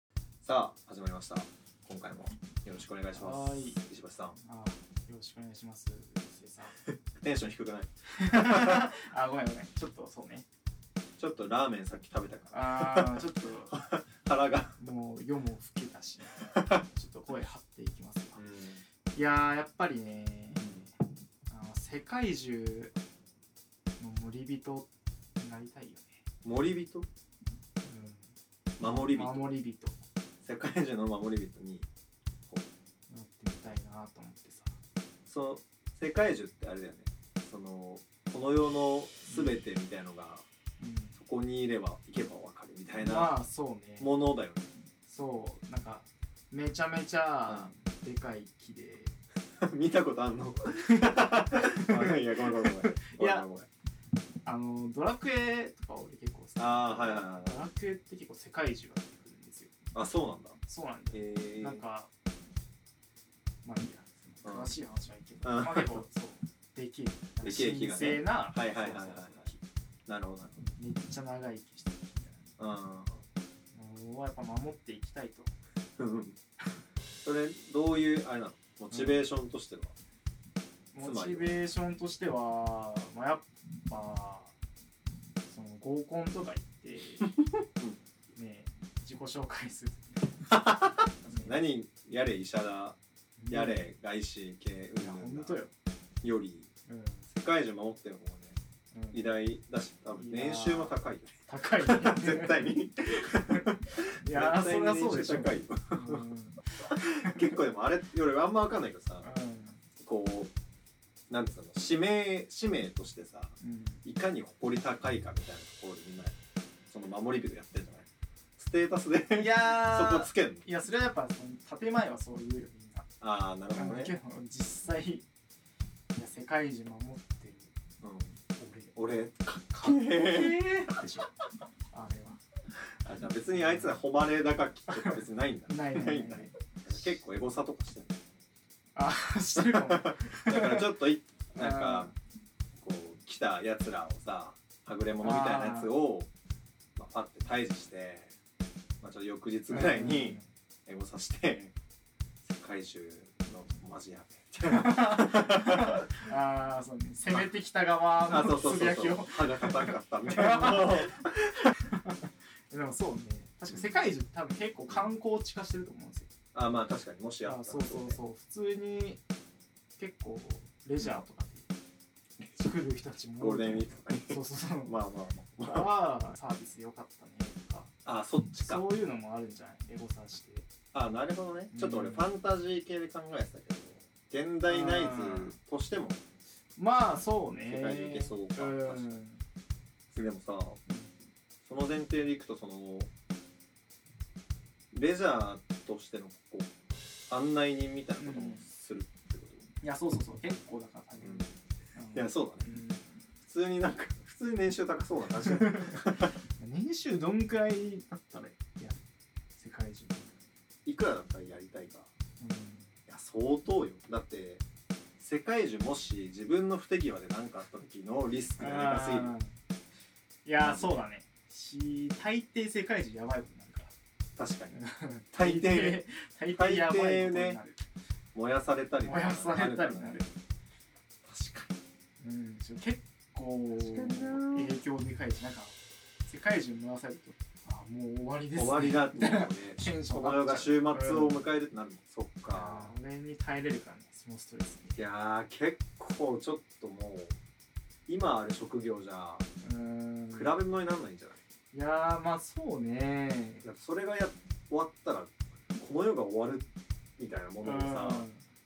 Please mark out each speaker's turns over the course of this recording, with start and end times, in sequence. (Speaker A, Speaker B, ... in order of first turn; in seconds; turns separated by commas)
Speaker A: 0.4-4.4, Speaker B: 3.1-3.8, Speaker B: 4.3-6.8, Speaker A: 7.1-8.9, Speaker B: 8.2-10.4, Speaker A: 11.2-14.8, Speaker B: 12.5-13.8, Speaker B: 14.8-18.4, Speaker A: 16.5-16.8, Speaker A: 18.4-18.8, Speaker B: 19.1-20.9, Speaker A: 20.5-20.8, Speaker B: 21.5-22.9, Speaker B: 24.0-26.2, Speaker A: 26.4-27.1, Speaker B: 27.8-28.3, Speaker A: 28.8-29.5, Speaker B: 28.8-30.0, Speaker A: 30.4-31.9, Speaker B: 33.1-34.7, Speaker A: 35.2-40.5, Speaker B: 39.2-39.6, Speaker B: 40.8-41.1, Speaker A: 41.1-43.4, Speaker B: 43.0-44.1, Speaker A: 44.0-44.7, Speaker B: 45.1-49.2, Speaker A: 47.5-47.7, Speaker A: 49.6-53.7, Speaker B: 50.8-53.4, Speaker B: 54.4-59.7, Speaker A: 56.6-57.7, Speaker A: 59.9-60.6, Speaker B: 60.6-62.1, Speaker A: 61.1-61.8, Speaker B: 63.6-69.6, Speaker A: 64.4-64.7, Speaker A: 65.4-66.0, Speaker A: 67.4-69.5, Speaker A: 70.1-70.6, Speaker B: 70.8-72.5, Speaker A: 72.6-73.2, Speaker B: 73.7-75.5, Speaker A: 76.0-76.4, Speaker A: 77.2-79.9, Speaker B: 78.9-79.2, Speaker B: 80.9-84.5, Speaker A: 81.0-81.5, Speaker B: 85.5-87.3, Speaker B: 88.3-90.6, Speaker A: 90.5-93.0, Speaker B: 91.2-91.5, Speaker B: 93.4-93.8, Speaker A: 93.5-95.6, Speaker B: 95.0-95.7, Speaker A: 96.2-96.7, Speaker B: 96.9-97.2, Speaker A: 97.3-98.6, Speaker B: 98.9-99.3, Speaker A: 99.1-106.3, Speaker B: 100.1-102.8, Speaker B: 103.3-107.5, Speaker A: 106.9-109.3, Speaker B: 109.2-109.8, Speaker A: 110.0-110.5, Speaker A: 111.3-116.3, Speaker B: 113.6-114.0, Speaker A: 116.9-118.1, Speaker A: 118.6-120.7, Speaker B: 119.3-123.0, Speaker A: 123.2-124.1, Speaker B: 123.7-125.2, Speaker B: 126.1-127.7, Speaker A: 128.0-128.4, Speaker B: 128.6-128.9, Speaker A: 128.9-130.8, Speaker B: 129.7-131.3, Speaker B: 131.9-132.4, Speaker A: 133.0-138.2, Speaker B: 133.1-133.9, Speaker B: 135.7-136.5, Speaker B: 138.9-140.9, Speaker A: 139.6-142.1, Speaker B: 141.5-142.1, Speaker A: 142.8-146.3, Speaker B: 145.2-145.9, Speaker A: 146.9-148.3, Speaker A: 149.0-151.7, Speaker B: 149.7-150.5, Speaker A: 152.4-156.1, Speaker B: 154.7-166.3, Speaker A: 158.2-161.6, Speaker A: 166.5-168.2, Speaker B: 167.4-169.2, Speaker B: 170.0-171.7, Speaker A: 172.4-172.7, Speaker B: 172.6-174.9, Speaker A: 173.4-175.9, Speaker B: 175.6-177.9, Speaker A: 178.0-178.9, Speaker B: 178.6-180.7, Speaker A: 180.9-186.2, Speaker B: 181.7-182.3, Speaker B: 184.7-185.5, Speaker B: 186.8-189.4, Speaker A: 187.7-189.2, Speaker A: 190.1-190.8, Speaker B: 190.9-191.1, Speaker A: 191.6-193.1, Speaker A: 194.9-196.7, Speaker A: 197.3-199.7, Speaker B: 198.2-198.6, Speaker B: 199.8-203.1, Speaker A: 201.2-201.5, Speaker A: 202.1-202.7, Speaker A: 203.4-206.3, Speaker B: 205.5-206.0, Speaker B: 206.5-209.0, Speaker B: 209.6-210.3, Speaker A: 210.8-212.1, Speaker B: 212.4-212.9, Speaker A: 213.1-214.6, Speaker A: 215.2-219.3, Speaker B: 218.6-219.5, Speaker B: 220.4-223.9, Speaker A: 220.6-221.0, Speaker A: 224.3-224.8, Speaker B: 224.7-227.8, Speaker A: 225.3-227.6, Speaker A: 228.3-230.3, Speaker B: 229.0-230.2, Speaker A: 231.2-231.7, Speaker B: 232.2-241.4, Speaker A: 233.8-234.8, Speaker A: 238.5-242.9, Speaker B: 242.5-245.0, Speaker A: 244.9-247.3, Speaker A: 248.1-249.4, Speaker B: 249.6-250.5, Speaker A: 250.3-251.4, Speaker B: 251.7-253.6, Speaker A: 253.6-256.6, Speaker A: 257.2-258.2, Speaker B: 257.6-258.4